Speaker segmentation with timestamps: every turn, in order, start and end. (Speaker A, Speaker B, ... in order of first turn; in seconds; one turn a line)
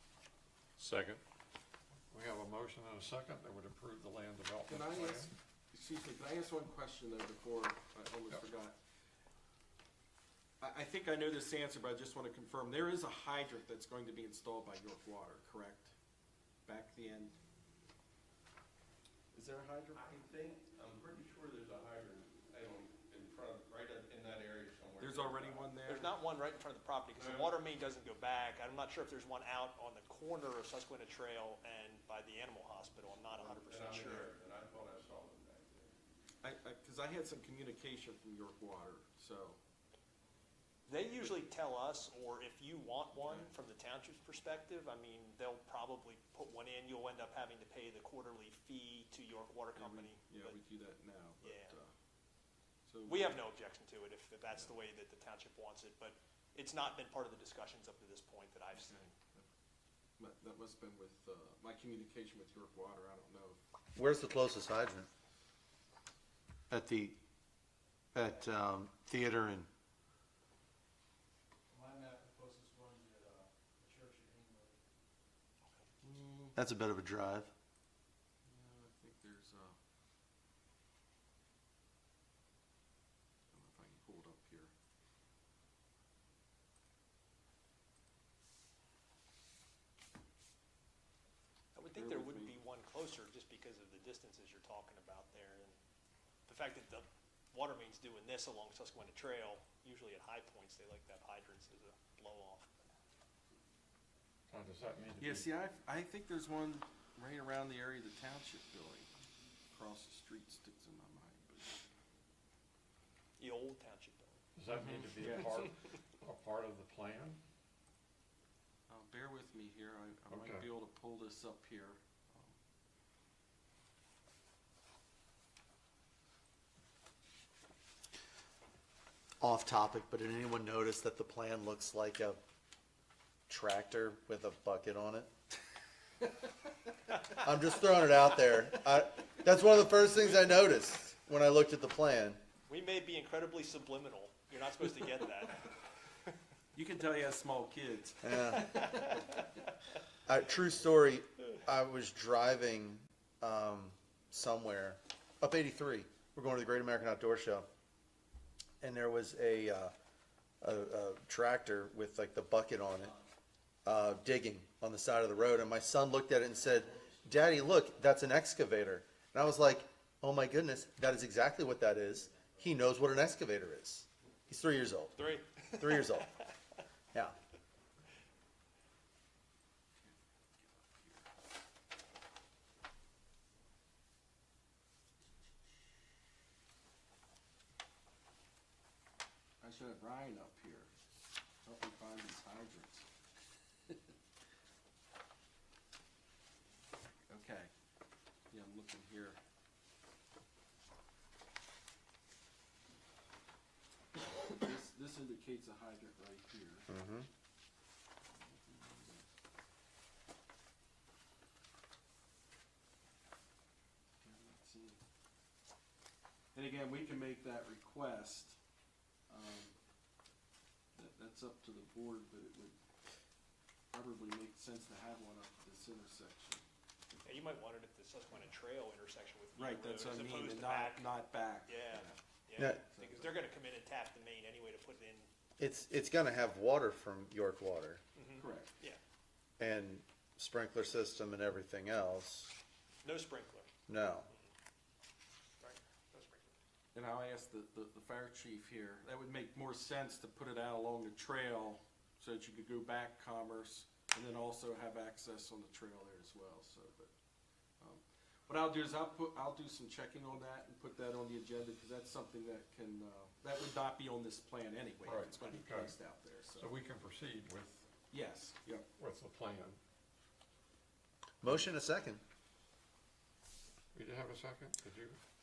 Speaker A: 0.8-1.2
Speaker A: 2.1-5.3
Speaker B: 4.7-8.8
Speaker B: 10.6-15.9
Speaker B: 16.7-17.4
Speaker B: 19.3-20.0
Speaker C: 19.9-25.8
Speaker B: 25.0-26.2
Speaker D: 25.9-34.3
Speaker C: 27.1-27.6
Speaker C: 33.3-36.0
Speaker B: 36.4-39.6
Speaker D: 40.9-50.6
Speaker B: 43.2-43.5
Speaker B: 49.8-51.9
Speaker D: 51.4-51.8
Speaker B: 52.9-53.4
Speaker D: 53.1-59.0
Speaker B: 58.7-59.5
Speaker B: 60.2-63.6
Speaker E: 64.0-65.1
Speaker E: 66.7-67.2
Speaker E: 68.1-69.7
Speaker F: 71.7-74.8
Speaker B: 76.0-76.6
Speaker E: 76.5-77.5
Speaker B: 78.4-79.8
Speaker B: 83.5-84.7
Speaker D: 91.8-95.8
Speaker B: 91.9-92.6
Speaker D: 96.5-102.7
Speaker A: 104.5-105.5
Speaker B: 105.2-109.1
Speaker B: 109.7-111.8
Speaker D: 113.4-114.4
Speaker A: 114.6-117.4
Speaker B: 115.0-115.6
Speaker B: 118.9-122.6
Speaker A: 120.3-120.7
Speaker E: 129.4-132.4
Speaker E: 133.5-135.3
Speaker E: 137.4-142.4
Speaker D: 142.7-145.8
Speaker B: 146.7-148.8
Speaker E: 148.2-148.8
Speaker D: 148.5-149.7
Speaker E: 150.3-157.7
Speaker E: 158.8-159.9
Speaker E: 160.6-163.2
Speaker E: 163.8-175.2
Speaker D: 175.2-176.5
Speaker E: 175.8-176.3
Speaker B: 180.0-181.3
Speaker B: 189.6-190.9
Speaker B: 191.6-193.1
Speaker B: 197.3-197.7
Speaker B: 198.5-199.4
Speaker B: 204.2-206.9
Speaker E: 206.9-207.3
Speaker B: 208.3-209.3
Speaker B: 214.2-215.0
Speaker B: 216.5-218.6
Speaker B: 219.3-219.8
Speaker B: 220.9-222.8
Speaker B: 223.9-226.6
Speaker D: 227.2-235.3
Speaker B: 229.6-232.2
Speaker E: 232.6-232.8
Speaker B: 232.9-233.4
Speaker E: 235.6-238.0
Speaker D: 238.2-239.0
Speaker B: 238.4-238.8
Speaker E: 239.6-242.5
Speaker D: 243.0-243.7
Speaker E: 243.9-244.3
Speaker D: 245.6-246.6
Speaker B: 246.9-257.1
Speaker B: 257.8-266.7
Speaker A: 265.1-266.0
Speaker A: 266.5-267.9
Speaker B: 268.1-268.9
Speaker A: 269.0-269.8
Speaker E: 271.4-272.2
Speaker A: 273.9-275.2